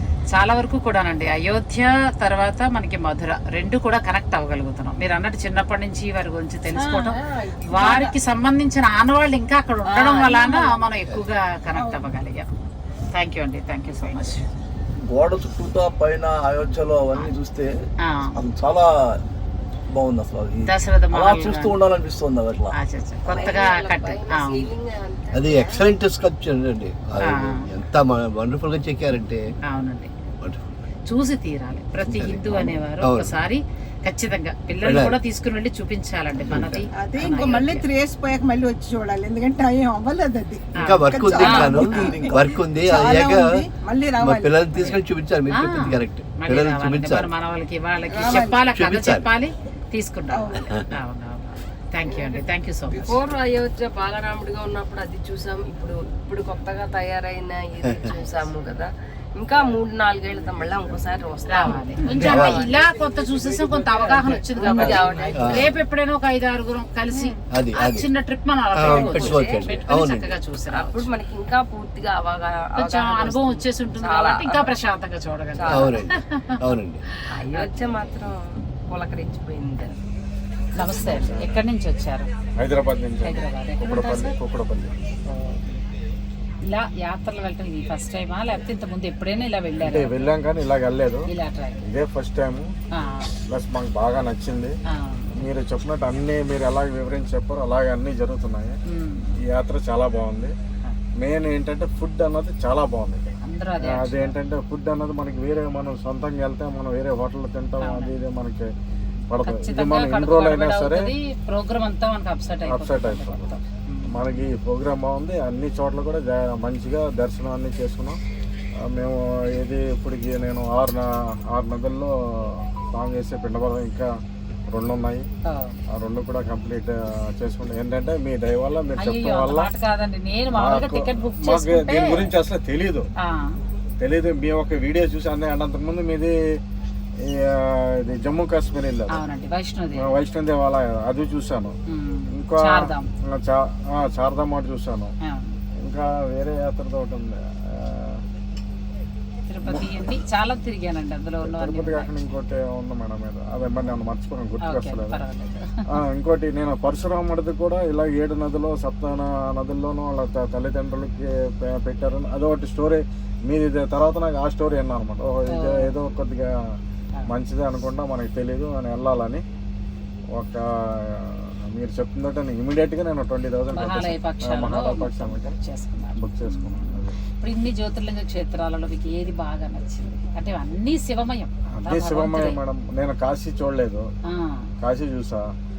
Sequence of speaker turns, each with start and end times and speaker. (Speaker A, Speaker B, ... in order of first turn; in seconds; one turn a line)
Speaker A: 0.3-12.5
Speaker B: 6.8-8.1
Speaker A: 13.1-14.4
Speaker C: 15.1-17.7
Speaker A: 18.1-18.4
Speaker C: 18.4-19.2
Speaker C: 19.9-22.7
Speaker A: 20.7-21.8
Speaker A: 22.8-24.7
Speaker D: 23.3-25.9
Speaker E: 25.3-29.5
Speaker A: 27.3-27.6
Speaker A: 29.7-30.1
Speaker A: 31.1-37.8
Speaker E: 32.0-33.3
Speaker E: 34.8-35.2
Speaker E: 36.5-36.8
Speaker B: 37.0-44.6
Speaker A: 40.8-42.1
Speaker E: 40.8-43.7
Speaker E: 44.2-47.3
Speaker A: 45.5-53.2
Speaker D: 48.1-48.5
Speaker E: 48.5-49.3
Speaker D: 52.1-52.4
Speaker D: 53.0-65.6
Speaker E: 57.8-58.2
Speaker A: 61.5-71.0
Speaker E: 62.1-62.6
Speaker E: 64.6-65.7
Speaker E: 67.5-68.1
Speaker E: 68.7-70.4
Speaker D: 68.8-69.6
Speaker D: 70.7-74.8
Speaker A: 72.8-76.4
Speaker D: 75.5-76.0
Speaker E: 75.7-77.0
Speaker D: 77.3-80.0
Speaker A: 77.5-77.9
Speaker A: 80.8-82.3
Speaker F: 81.0-81.6
Speaker F: 82.6-85.0
Speaker A: 83.2-84.3
Speaker A: 86.7-90.3
Speaker F: 89.8-91.3
Speaker A: 91.3-91.8
Speaker F: 91.8-92.7
Speaker A: 92.9-93.3
Speaker F: 93.5-94.8
Speaker A: 94.9-95.3
Speaker F: 95.4-98.7
Speaker A: 98.9-99.3
Speaker F: 99.5-100.5
Speaker F: 101.2-103.3
Speaker A: 103.5-104.3
Speaker F: 103.8-108.7
Speaker A: 107.8-108.2
Speaker F: 109.3-111.1
Speaker A: 109.4-114.5
Speaker F: 112.7-113.6
Speaker F: 114.1-118.2
Speaker F: 118.8-124.1
Speaker F: 124.7-125.2
Speaker A: 125.5-125.8
Speaker F: 125.9-129.7
Speaker A: 129.0-132.3
Speaker F: 130.6-133.1
Speaker A: 133.2-133.6
Speaker F: 134.0-136.3
Speaker F: 137.2-139.2
Speaker A: 139.1-140.1
Speaker F: 140.0-141.7
Speaker A: 141.9-143.1
Speaker F: 142.3-145.1
Speaker A: 145.2-145.6
Speaker F: 145.8-148.2
Speaker A: 149.5-152.3
Speaker F: 149.7-150.0
Speaker F: 151.4-155.2
Speaker A: 154.6-155.8
Speaker F: 155.9-166.5
Speaker A: 165.5-165.9
Speaker F: 167.3-169.4
Speaker F: 170.3-175.5
Speaker A: 173.7-182.6
Speaker F: 176.2-177.1
Speaker F: 181.8-184.0
Speaker A: 184.3-184.7
Speaker F: 184.8-185.5